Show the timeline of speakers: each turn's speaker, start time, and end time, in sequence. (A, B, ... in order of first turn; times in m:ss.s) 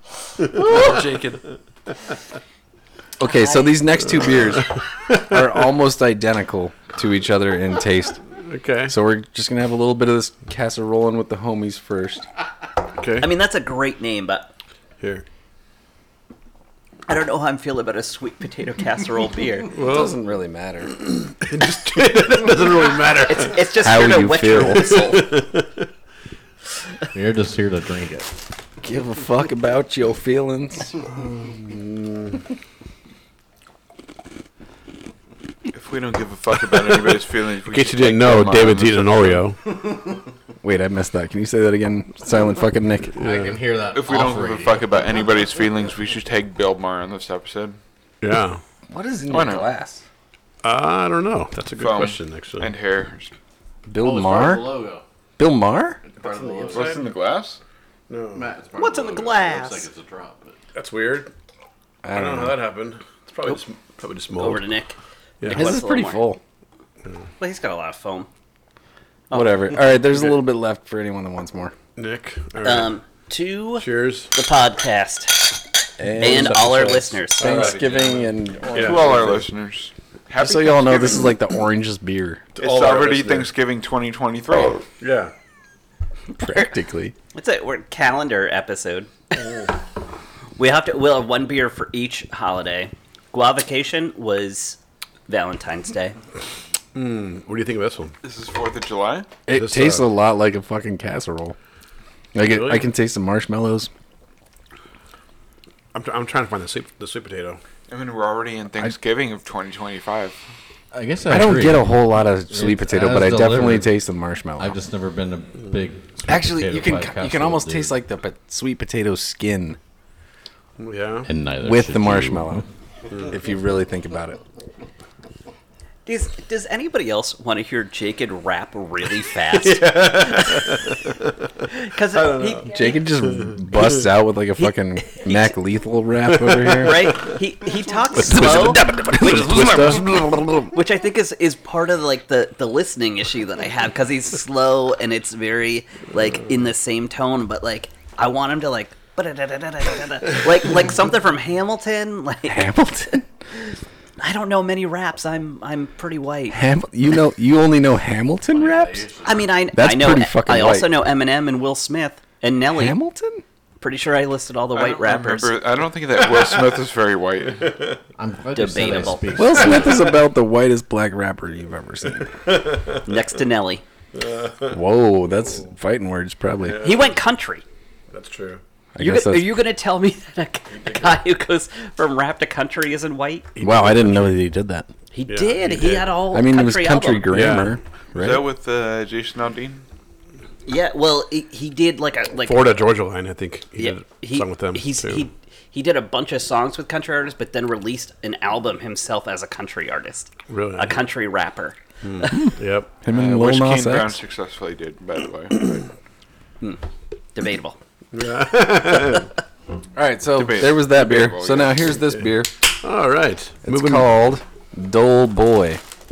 0:00.6-0:00.8 A
0:00.6-0:01.4 B
0:03.2-0:08.2 C
0:04.3-0:05.2 A
0:08.4-0:08.9 A
0:08.9-0:12.2 C
0:13.0-0:13.3 A
0:13.2-0:14.5 D
0:17.1-0:19.7 D
0:19.7-0:20.1 A
0:19.7-0:20.9 C
0:21.3-0:23.6 A
0:23.3-0:25.3 D
0:23.8-0:25.0 C
0:24.7-0:25.8 A
0:27.1-0:28.3 E
0:28.8-0:30.9 C
0:31.2-0:32.4 A
0:35.7-0:39.4 B
0:37.7-0:39.6 A
0:39.7-0:40.2 E
0:40.6-0:43.2 C
0:43.2-0:43.6 A
0:43.2-0:45.0 E
0:43.9-0:47.8 B
0:48.2-0:48.6 A
0:48.9-0:50.0 C
0:49.3-0:49.7 B
0:50.6-0:52.7 A
0:51.8-0:53.3 B
0:53.9-0:54.7 C
0:54.0-0:55.0 E
0:55.4-0:56.0 C
0:56.0-0:57.0 E
0:56.2-0:57.0 A
0:56.7-0:57.6 B
0:58.1-0:58.4 A
0:58.3-1:00.6 E
0:58.8-0:59.9 D
1:00.7-1:01.3 A
1:02.0-1:02.6 C
1:02.1-1:04.6 A
1:04.4-1:06.2 D
1:05.4-1:05.7 A
1:05.5-1:06.4 C
1:07.4-1:08.3 D
1:09.3-1:09.6 D
1:09.3-1:11.7 C
1:12.0-1:12.9 A
1:12.6-1:15.6 D
1:13.8-1:14.3 A
1:16.0-1:19.4 C
1:16.2-1:18.2 A
1:16.2-1:17.6 D
1:18.7-1:19.4 A
1:18.7-1:21.3 B
1:20.4-1:22.4 C
1:22.6-1:23.5 A
1:22.6-1:24.8 B
1:25.0-1:25.3 A
1:26.3-1:27.1 C
1:27.3-1:29.1 D
1:29.4-1:29.7 A
1:30.6-1:36.2 D
1:36.9-1:38.1 A
1:38.2-1:39.3 B
1:39.5-1:41.6 C
1:39.5-1:40.0 A
1:42.3-1:43.9 C
1:42.4-1:42.9 A
1:45.9-1:47.6 A
1:47.9-1:50.4 B
1:50.9-1:52.0 E
1:51.3-1:54.8 C
1:52.5-1:53.9 E
1:54.6-1:57.9 E
1:56.3-1:59.8 C
2:00.8-2:01.3 A
2:01.2-2:02.6 E
2:01.6-2:02.6 C
2:03.3-2:04.4 C
2:06.0-2:10.8 D
2:09.6-2:11.2 A
2:11.7-2:12.9 D
2:12.1-2:14.0 A
2:12.6-2:17.2 C
2:14.6-2:15.6 D
2:16.3-2:17.3 A
2:16.8-2:19.9 D
2:18.1-2:20.7 A
2:18.2-2:20.6 C
2:20.7-2:32.7 D
2:32.5-2:33.2 C
2:34.2-2:36.6 D
2:36.5-2:39.1 C
2:38.5-2:39.4 E
2:39.2-2:43.0 D
2:39.7-2:40.9 C
2:42.7-2:43.4 C
2:43.8-2:45.6 D
2:44.7-2:47.8 B
2:46.2-2:46.5 A
2:48.2-2:50.1 E
2:48.5-2:49.7 D
2:49.3-2:52.4 C
2:52.2-2:53.0 A
2:53.0-2:53.8 D
2:54.1-2:54.7 A
2:54.7-2:56.9 C
2:56.6-2:57.1 A
2:56.8-2:57.6 D
2:58.1-2:58.6 A
2:58.9-2:59.6 C
2:59.0-3:03.5 D
3:00.8-3:01.2 A
3:03.6-3:04.4 A
3:03.6-3:04.9 C
3:05.1-3:07.3 D
3:05.3-3:06.2 A
3:06.3-3:08.4 C
3:07.3-3:07.8 A
3:08.2-3:09.8 B
3:10.6-3:12.7 D
3:12.4-3:15.2 A
3:13.8-3:22.3 D
3:20.5-3:21.0 A
3:22.0-3:22.9 A
3:22.3-3:24.2 C
3:23.1-3:25.8 B
3:27.3-3:27.8 D
3:28.1-3:29.3 A
3:30.0-3:32.5 C
3:30.3-3:32.0 B
3:32.8-3:34.1 A
3:33.6-3:35.8 C